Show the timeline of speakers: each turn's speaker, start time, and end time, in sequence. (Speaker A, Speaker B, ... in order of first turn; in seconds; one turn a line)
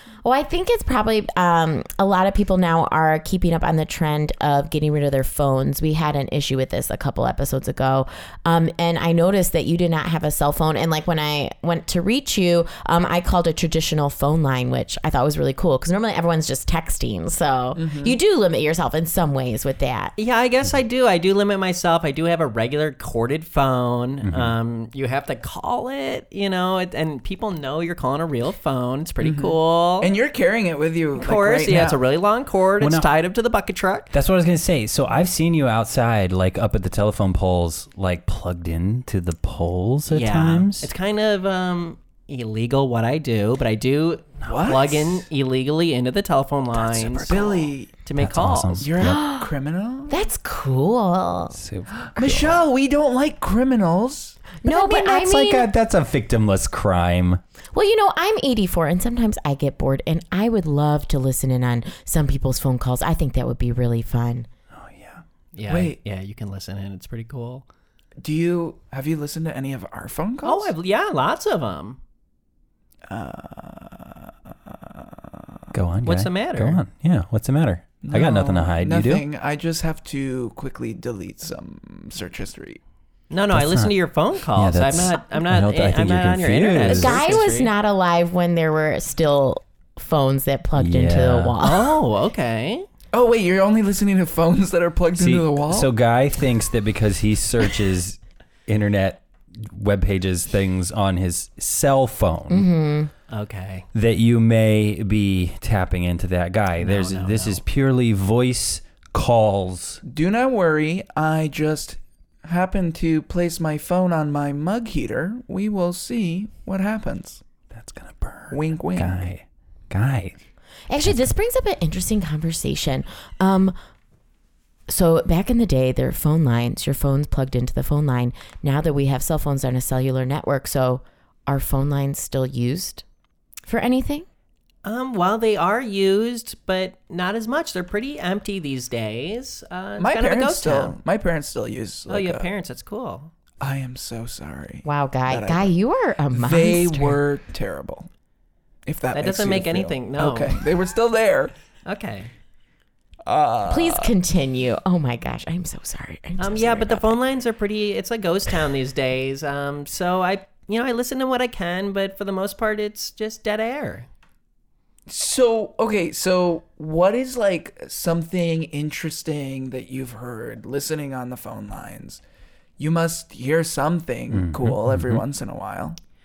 Speaker A: 0.2-20.1
Speaker B: 17.8-18.2
Speaker C: 20.2-30.1
Speaker D: 24.2-24.5
Speaker B: 29.2-32.0
Speaker C: 31.2-34.1
Speaker D: 32.8-33.1
Speaker D: 34.1-40.9
Speaker C: 40.1-47.5
Speaker B: 44.4-45.2
Speaker D: 46.8-49.2
Speaker B: 47.3-48.0
Speaker C: 48.0-48.9
Speaker B: 48.8-50.3
Speaker A: 49.0-49.5
Speaker A: 50.1-51.6
Speaker D: 51.5-52.7
Speaker B: 52.1-54.5
Speaker A: 54.6-55.7
Speaker D: 54.7-57.4
Speaker A: 57.7-64.5
Speaker D: 64.7-65.2
Speaker C: 65.5-67.7
Speaker B: 65.7-66.0
Speaker B: 68.2-70.7
Speaker C: 70.4-72.0
Speaker B: 73.1-75.6
Speaker D: 75.7-79.2
Speaker C: 76.0-76.8
Speaker B: 78.0-82.8
Speaker C: 83.3-87.7
Speaker D: 83.5-83.9
Speaker D: 84.5-87.3
Speaker A: 86.9-92.0
Speaker D: 90.8-91.6
Speaker C: 91.6-92.9
Speaker B: 93.1-95.9
Speaker D: 95.2-102.7
Speaker A: 102.5-103.1
Speaker C: 103.3-103.9
Speaker D: 103.9-110.0
Speaker C: 106.8-107.6
Speaker B: 110.0-117.4
Speaker D: 117.7-120.4
Speaker B: 118.5-119.3
Speaker A: 120.9-123.8
Speaker D: 121.0-121.3
Speaker A: 124.9-133.1
Speaker A: 133.7-134.3
Speaker C: 134.8-141.0
Speaker B: 140.0-142.5
Speaker C: 142.1-143.3
Speaker B: 143.6-145.7
Speaker A: 144.8-147.2
Speaker B: 146.3-148.1
Speaker B: 148.9-151.5
Speaker C: 149.1-150.7
Speaker C: 151.8-152.3
Speaker B: 153.3-154.1
Speaker A: 153.7-157.1
Speaker C: 156.4-164.1
Speaker B: 165.1-172.2
Speaker B: 172.8-176.0
Speaker D: 174.3-175.2